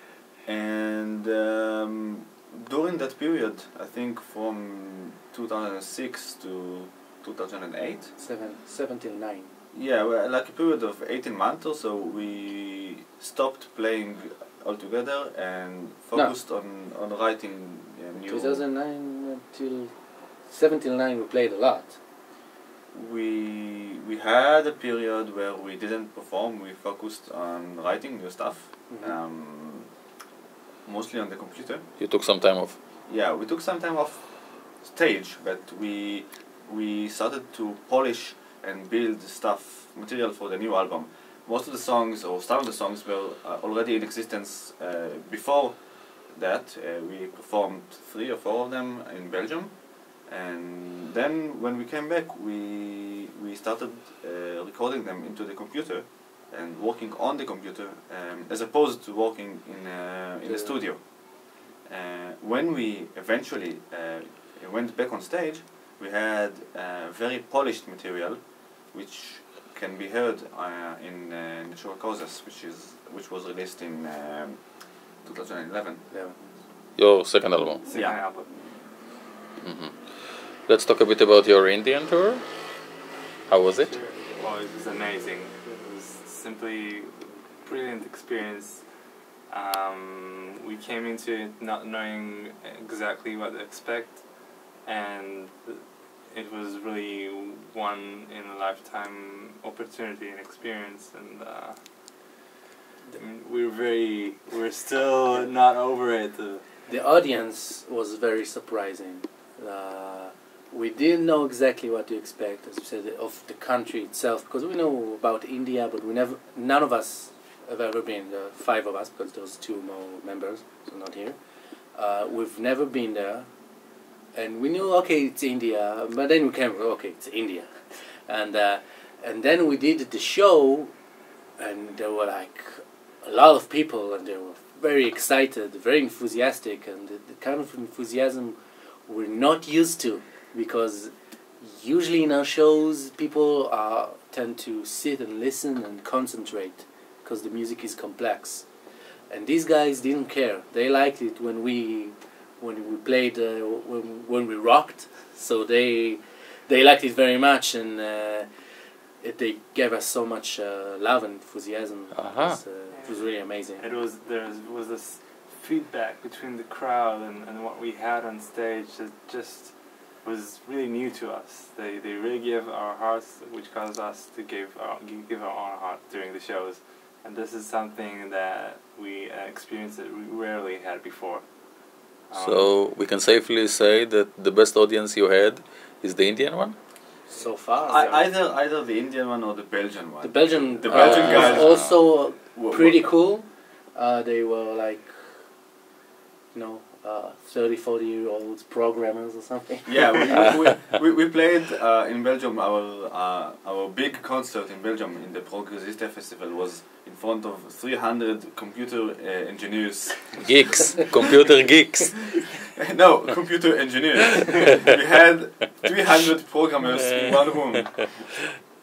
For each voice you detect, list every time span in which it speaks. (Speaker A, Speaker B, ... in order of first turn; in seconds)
Speaker A: 0.5-8.2, 9.7-18.6, 22.9-29.9, 30.9-31.9, 33.0-76.1, 77.9-78.2, 187.9-193.2, 199.8-210.5, 212.3-218.5
Speaker B: 8.2-9.5, 18.2-19.9, 20.5-22.0, 28.9-29.2, 60.4-60.9, 76.1-76.4, 106.9-121.4, 121.9-123.5, 124.3-130.9, 131.6-148.7, 149.3-163.9, 187.3-188.3, 190.2-195.5, 196.5-200.3
Speaker C: 32.0-32.8, 77.0-77.8, 79.6-82.6, 83.5-84.0, 162.2-162.6, 182.4-186.8, 190.9-192.0, 210.4-212.3
Speaker D: 77.8-78.6, 83.8-88.9, 89.5-101.8, 103.1-106.6, 162.9-182.8